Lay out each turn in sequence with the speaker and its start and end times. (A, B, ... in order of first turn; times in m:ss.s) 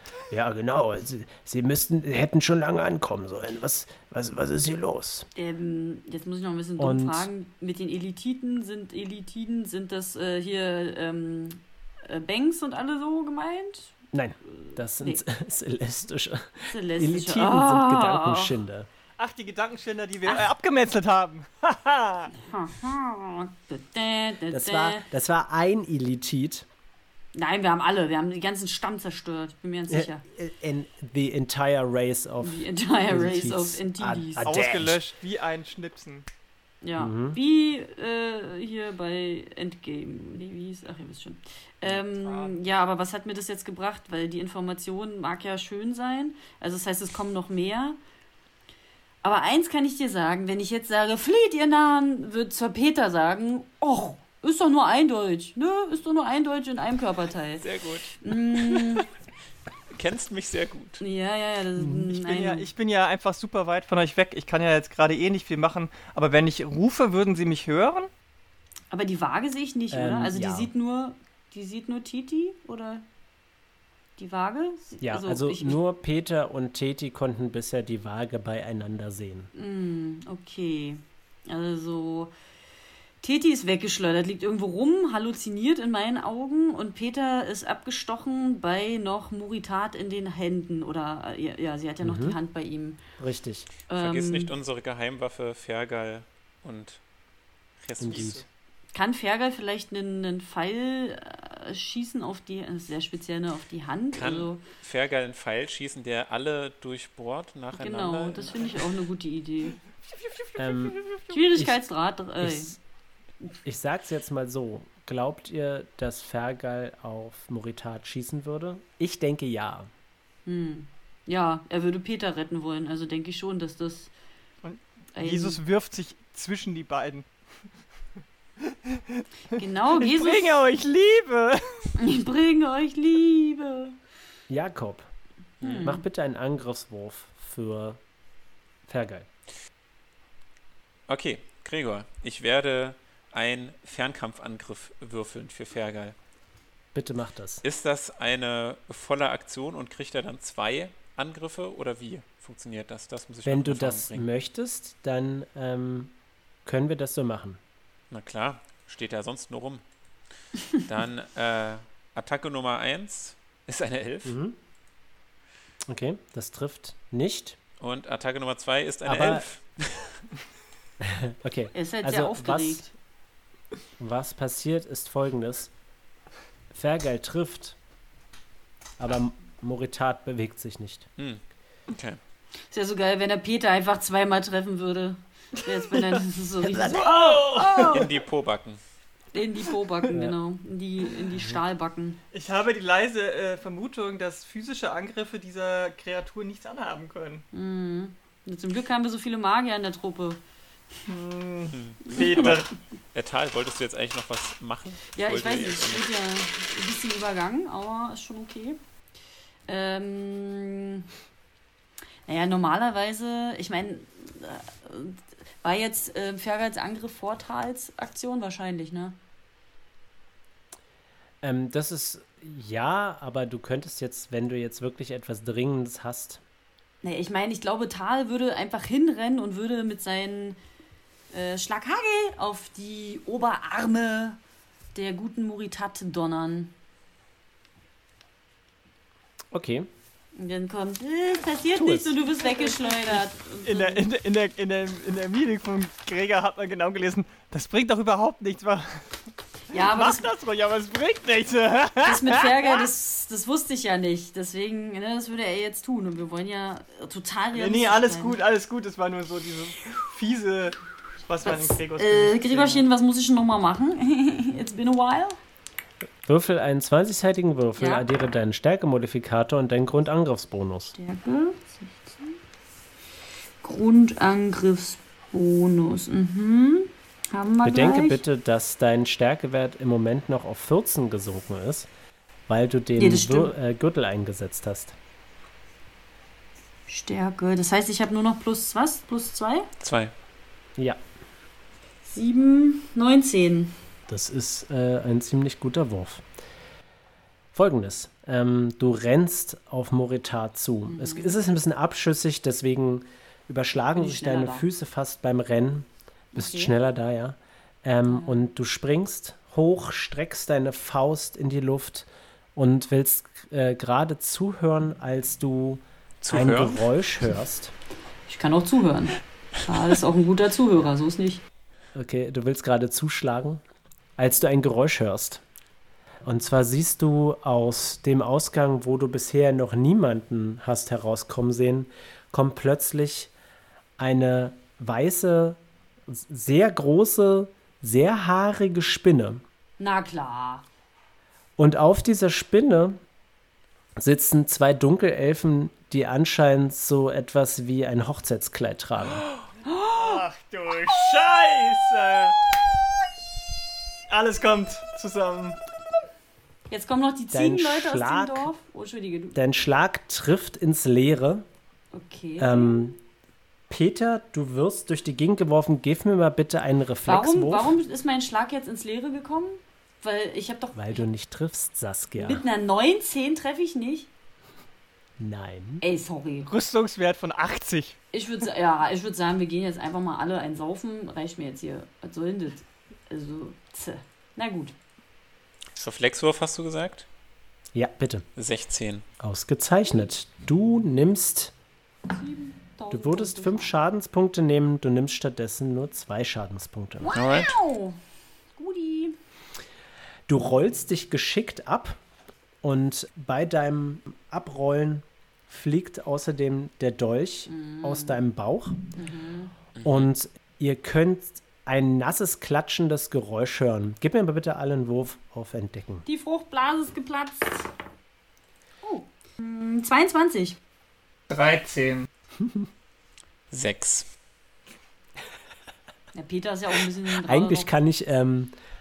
0:00.3-0:05.3 A
0:05.3-0:14.0 B
0:06.8-0:07.3 A
0:14.1-0:18.9 A
0:14.5-0:15.2 B
0:16.7-0:18.5 B
0:19.2-0:22.3 C
0:22.3-0:25.0 B
0:24.5-0:26.7 A
0:27.3-0:30.2 B
0:29.9-0:35.0 A
0:32.4-0:34.5 B
0:34.4-0:36.2 C
0:36.8-0:48.0 B
0:37.0-0:37.4 A
0:41.9-0:42.6 C
0:49.2-0:59.0 B
0:57.6-0:58.2 D
0:58.7-0:59.0 D
0:59.9-1:01.0 D
1:01.0-1:02.6 B
1:02.1-1:08.1 C
1:08.9-1:13.0 B
1:09.9-1:10.7 A
1:14.2-1:15.8 B
1:15.0-1:19.5 A
1:19.5-1:22.3 B
1:23.2-1:33.0 B
1:32.0-1:32.4 A
1:33.2-1:33.7 A
1:33.9-1:34.5 B
1:34.0-1:37.0 D
1:37.8-1:38.4 D
1:38.0-1:38.4 A
1:38.9-1:44.6 B
1:44.1-1:48.7 D
1:47.7-1:49.8 B
1:50.0-1:51.4 C
1:50.6-1:51.0 A
1:51.3-1:52.8 B
1:52.4-1:52.8 A
1:53.6-1:59.9 A
2:00.4-2:04.1 B
2:04.6-2:07.3 C
2:05.1-2:05.6 B
2:08.6-2:11.9 C
2:09.6-2:10.6 B
2:12.0-2:14.0 B
2:14.5-2:15.1 A
2:15.6-2:16.0 B
2:15.7-2:18.0 A
2:18.9-2:19.3 A
2:21.1-2:26.1 D
2:26.9-2:27.6 A
2:27.6-2:34.2 D
2:33.4-2:36.1 A
2:36.6-2:37.6 A
2:38.1-2:39.8 D
2:40.8-2:44.3 D
2:44.2-2:44.6 A
2:45.9-2:47.6 A
2:47.8-2:50.2 D
2:49.0-2:49.4 A
2:51.0-2:52.9 A
2:51.7-2:52.8 B
2:54.0-2:55.7 A
2:56.7-2:57.8 A
2:59.0-3:01.1 A
3:01.2-3:02.2 D
3:02.7-3:08.1 B
3:06.6-3:07.2 A
3:06.9-3:08.1 C
3:07.8-3:08.8 D
3:09.3-3:12.2 B
3:12.3-3:17.4 C
3:17.5-3:20.4 B
3:21.1-3:22.7 C
3:21.7-3:26.1 D
3:22.2-3:22.5 B
3:25.1-3:28.8 B
3:29.7-3:31.0 B
3:32.3-3:39.2 B
3:41.4-3:46.4 A
3:47.0-3:50.6 B
3:51.3-3:54.4 B
3:54.9-3:56.7 B
3:59.5-3:59.9 A
4:00.3-4:04.0 B
4:01.7-4:02.2 A
4:02.9-4:12.9 C
4:09.7-4:10.3 B
4:12.0-4:18.4 B
4:17.5-4:22.8 C
4:21.4-4:25.4 B
4:26.2-4:30.9 A
4:27.8-4:28.1 B
4:31.0-4:32.3 B
4:33.6-4:38.2 B
4:37.6-4:41.9 A
4:42.5-4:44.9 A
4:43.0-4:43.5 B
4:46.9-4:49.7 B
4:49.8-4:50.1 D
4:52.1-4:53.8 B
4:54.1-4:56.2 A
4:57.5-5:17.7 A
5:00.9-5:01.4 B
5:03.9-5:04.6 B
5:06.3-5:06.7 B
5:08.1-5:08.4 B
5:16.2-5:16.8 D
5:18.3-5:21.4 B
5:21.9-5:23.6 A
5:24.2-5:25.4 A
5:26.2-5:33.3 A
5:34.0-5:39.4 A
5:39.8-5:40.6 B
5:41.6-5:43.0 A
5:44.0-5:49.2 A
5:49.6-5:50.2 B
5:50.0-5:52.4 C
5:54.1-5:55.6 C
5:56.7-5:59.4 B
5:57.3-5:58.5 A
5:59.3-6:01.4 A
6:01.9-6:02.8 B
6:02.4-6:03.0 A
6:03.7-6:07.8 A
6:07.0-6:10.9 B
6:10.7-6:12.4 A
6:12.2-6:14.1 B
6:15.2-6:15.8 A
6:15.8-6:16.5 B
6:16.5-6:18.0 C
6:18.1-6:24.7 B
6:25.8-6:27.0 D
6:27.7-6:28.2 A
6:28.4-6:29.0 D
6:29.2-6:31.5 A
6:32.1-6:33.7 B
6:32.9-6:37.1 A
6:37.0-6:38.0 B
6:37.1-6:37.6 D
6:38.6-6:39.2 B
6:40.3-6:42.0 A
6:42.6-6:48.8 A
6:47.5-6:48.2 B
6:49.0-6:49.5 B
6:49.8-6:50.1 D
6:49.8-6:56.0 A
6:56.0-6:57.7 B
6:58.8-7:00.6 B
7:01.3-7:02.1 C
7:02.4-7:02.7 A
7:03.5-7:04.1 D
7:06.1-7:07.7 B
7:07.2-7:08.5 A